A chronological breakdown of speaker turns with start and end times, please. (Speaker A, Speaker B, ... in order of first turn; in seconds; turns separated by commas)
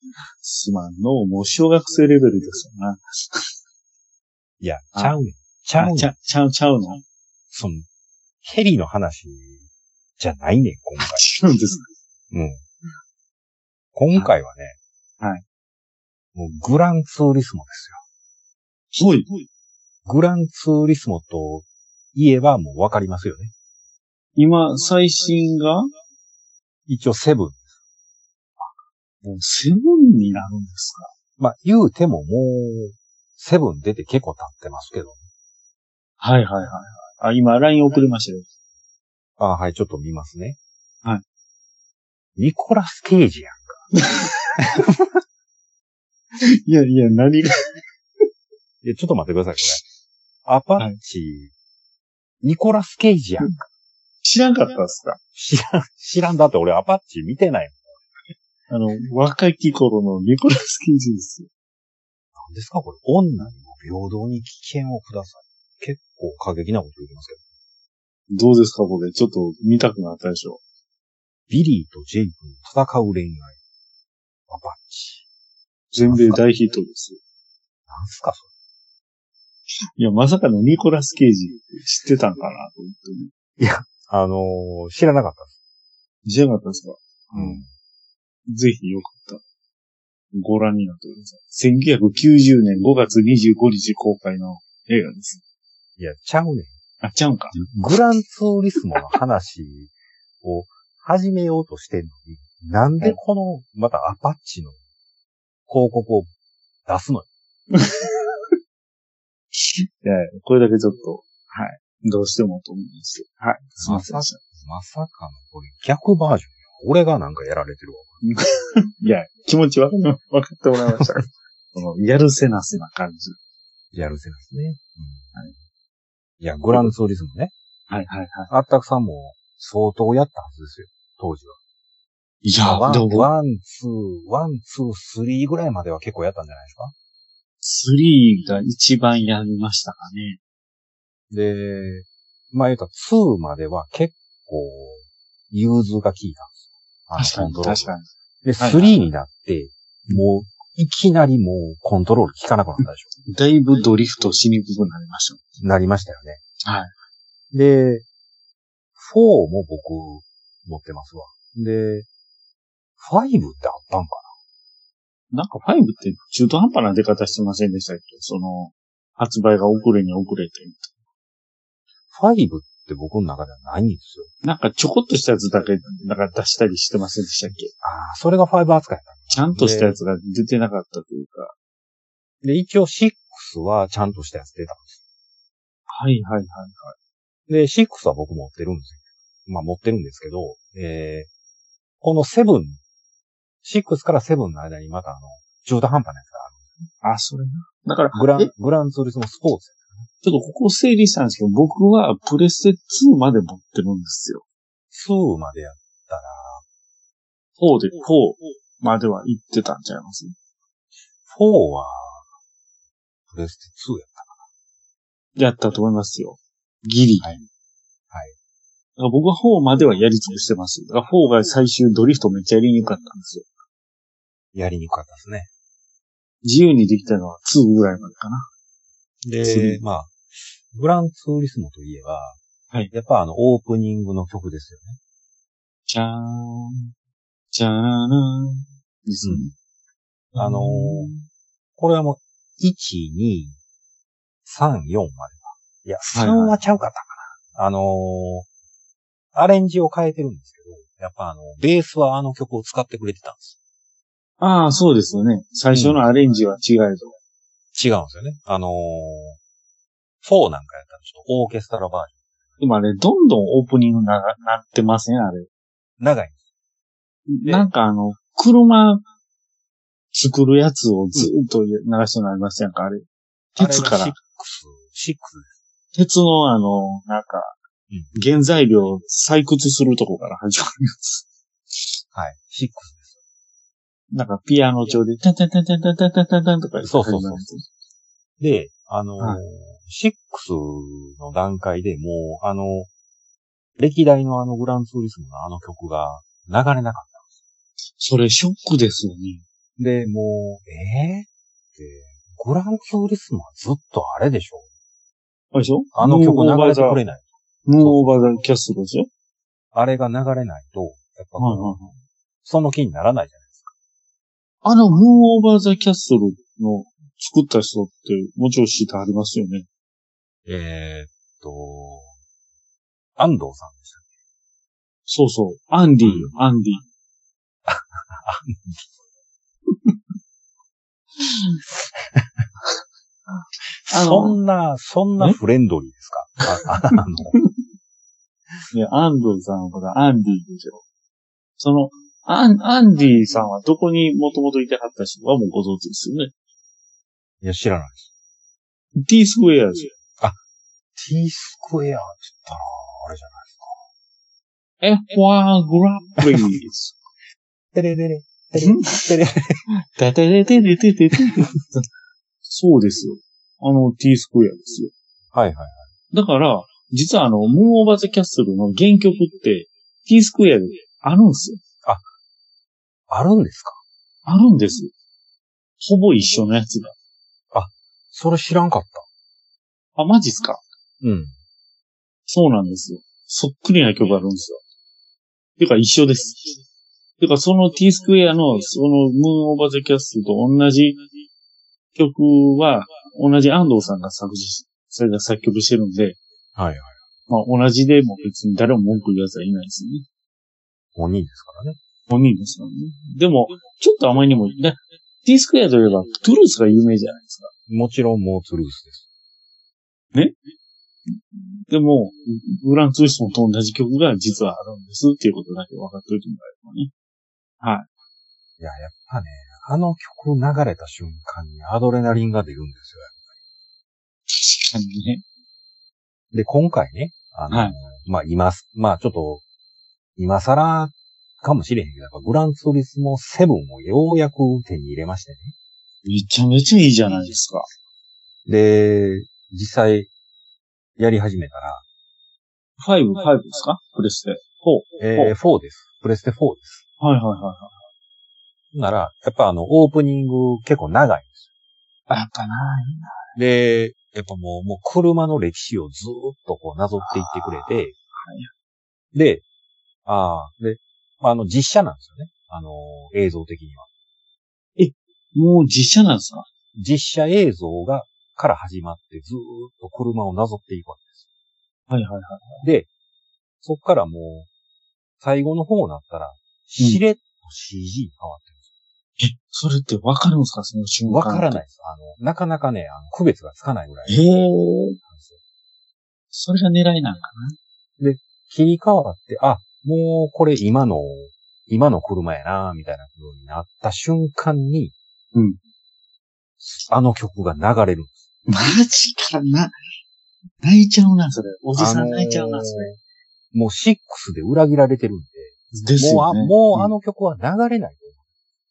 Speaker A: 0.4-3.5, Speaker B: 4.6-6.1, Speaker A: 5.8-7.0, Speaker B: 7.5-7.8, Speaker B: 8.4-9.7, Speaker B: 10.2-11.2, Speaker A: 11.0-11.8, Speaker B: 12.3-12.6, Speaker B: 13.9-14.8, Speaker B: 16.3-18.0, Speaker A: 18.9-19.4, Speaker B: 20.0-23.5, Speaker A: 24.4-25.9, Speaker B: 26.9-27.7, Speaker A: 29.2-31.1, Speaker B: 31.4-35.2, Speaker A: 36.2-38.5, Speaker B: 39.4-40.6, Speaker B: 42.4-43.9, Speaker A: 43.9-44.9, Speaker A: 46.4-47.8, Speaker B: 48.8-49.8, Speaker B: 50.4-51.5, Speaker B: 52.4-53.7, Speaker A: 54.2-55.2, Speaker B: 55.3-57.9, Speaker A: 58.7-61.5, Speaker B: 62.3-67.4, Speaker A: 68.3-70.6, Speaker B: 71.5-73.6, Speaker B: 74.5-75.2, Speaker A: 75.9-77.2, Speaker B: 76.1-76.4, Speaker B: 77.9-78.5, Speaker A: 80.0-83.3, Speaker B: 83.6-85.5, Speaker A: 86.2-87.6, Speaker B: 87.3-87.7, Speaker A: 88.5-89.4, Speaker A: 90.3-95.4, Speaker B: 96.0-96.7, Speaker A: 97.0-97.6, Speaker B: 97.5-104.8, Speaker B: 105.7-106.3, Speaker B: 106.8-107.3, Speaker A: 107.7-108.1, Speaker A: 109.6-114.4, Speaker B: 113.8-118.2, Speaker A: 118.2-123.4, Speaker B: 123.9-125.3, Speaker B: 126.4-127.5, Speaker A: 127.9-128.5, Speaker B: 128.5-131.6, Speaker A: 132.4-133.3, Speaker B: 132.6-136.9, Speaker A: 137.6-140.4, Speaker B: 141.3-146.6, Speaker B: 147.1-147.9, Speaker A: 147.1-148.1, Speaker B: 148.4-153.1, Speaker A: 148.6-149.0, Speaker A: 153.3-155.4, Speaker B: 155.6-156.4, Speaker A: 156.6-156.9, Speaker B: 157.5-158.0, Speaker B: 159.0-162.1, Speaker B: 163.0-164.3, Speaker A: 165.3-170.9, Speaker B: 172.1-174.3, Speaker A: 174.4-177.7, Speaker B: 177.8-180.0, Speaker A: 179.3-181.5, Speaker B: 182.4-185.0, Speaker A: 185.9-186.9, Speaker B: 187.5-191.3, Speaker B: 192.0-192.8, Speaker B: 193.6-196.8, Speaker A: 197.0-198.5, Speaker B: 198.1-200.1, Speaker A: 200.2-204.4, Speaker B: 204.9-206.6, Speaker A: 207.6-210.3, Speaker B: 211.3-212.2, Speaker B: 213.3-214.4, Speaker A: 215.3-217.4, Speaker A: 219.0-223.4, Speaker B: 224.5-225.5, Speaker A: 226.4-228.5, Speaker B: 229.2-232.4, Speaker A: 229.4-229.8, Speaker B: 232.9-235.0, Speaker A: 235.9-236.9, Speaker A: 237.5-239.5, Speaker A: 240.3-241.2, Speaker B: 240.3-241.1, Speaker B: 241.8-243.6, Speaker B: 244.4-248.5, Speaker A: 246.1-246.6, Speaker B: 249.3-253.6, Speaker A: 254.4-257.1, Speaker B: 255.7-256.0, Speaker B: 257.7-259.4, Speaker B: 260.2-262.2, Speaker A: 262.6-265.5, Speaker B: 266.0-266.4, Speaker A: 267.3-269.0, Speaker B: 267.4-267.7, Speaker A: 270.1-274.1, Speaker B: 273.6-275.6, Speaker A: 275.9-277.6, Speaker A: 278.1-281.2, Speaker B: 282.1-283.1, Speaker A: 284.1-287.6, Speaker B: 286.8-287.5, Speaker B: 288.4-292.9, Speaker B: 293.8-297.2, Speaker A: 298.0-299.4, Speaker B: 299.8-304.7, Speaker A: 305.5-307.0, Speaker B: 305.9-307.2, Speaker A: 307.6-309.1, Speaker B: 307.8-308.2, Speaker B: 309.7-311.9, Speaker A: 311.4-311.9, Speaker B: 312.4-313.7, Speaker A: 314.6-319.6, Speaker B: 320.4-322.1, Speaker B: 323.2-324.0, Speaker A: 325.1-326.8, Speaker B: 326.0-326.3, Speaker B: 327.6-328.9, Speaker A: 331.2-331.6, Speaker B: 331.9-332.4, Speaker A: 333.4-334.4, Speaker B: 333.8-337.4, Speaker A: 338.7-340.8, Speaker A: 341.6-346.3, Speaker B: 347.4-348.1, Speaker A: 349.0-349.9, Speaker B: 350.9-353.8, Speaker A: 354.8-357.0, Speaker B: 357.7-359.6, Speaker A: 358.6-359.1, Speaker A: 359.9-361.8, Speaker A: 362.5-364.9, Speaker B: 365.3-365.9, Speaker A: 366.1-371.6, Speaker B: 373.1-373.8, Speaker A: 374.2-374.9, Speaker A: 375.8-376.9, Speaker B: 377.5-379.1, Speaker A: 379.9-380.6, Speaker B: 381.0-381.3, Speaker A: 382.3-384.6, Speaker A: 385.6-386.5, Speaker A: 387.2-391.0, Speaker A: 391.9-396.2, Speaker B: 396.6-396.9, Speaker A: 397.3-400.0, Speaker B: 400.9-401.8, Speaker A: 402.1-407.5, Speaker B: 407.7-409.0, Speaker A: 411.1-416.9, Speaker A: 417.6-417.9, Speaker B: 418.6-423.2, Speaker A: 424.3-425.2, Speaker B: 426.3-429.4, Speaker A: 427.5-427.7, Speaker B: 430.2-435.5, Speaker A: 436.0-437.6, Speaker B: 438.4-440.1, Speaker B: 441.0-441.8, Speaker A: 442.8-445.4, Speaker B: 445.0-446.8, Speaker A: 447.0-447.8, Speaker B: 448.7-451.4, Speaker A: 452.1-453.3, Speaker B: 453.3-457.9, Speaker A: 457.0-458.5, Speaker B: 459.1-459.4, Speaker B: 460.0-463.9, Speaker A: 464.8-466.4, Speaker B: 466.7-471.2, Speaker A: 471.9-472.6, Speaker B: 472.6-472.9, Speaker B: 473.6-474.5, Speaker B: 475.2-478.6, Speaker A: 479.2-481.6, Speaker B: 481.1-484.2, Speaker A: 484.1-485.0, Speaker B: 485.1-485.4, Speaker A: 486.3-487.6, Speaker B: 488.0-494.9, Speaker B: 496.6-498.2, Speaker A: 498.5-499.7, Speaker A: 500.6-502.9, Speaker B: 501.8-503.0, Speaker B: 503.5-508.2, Speaker A: 505.7-506.9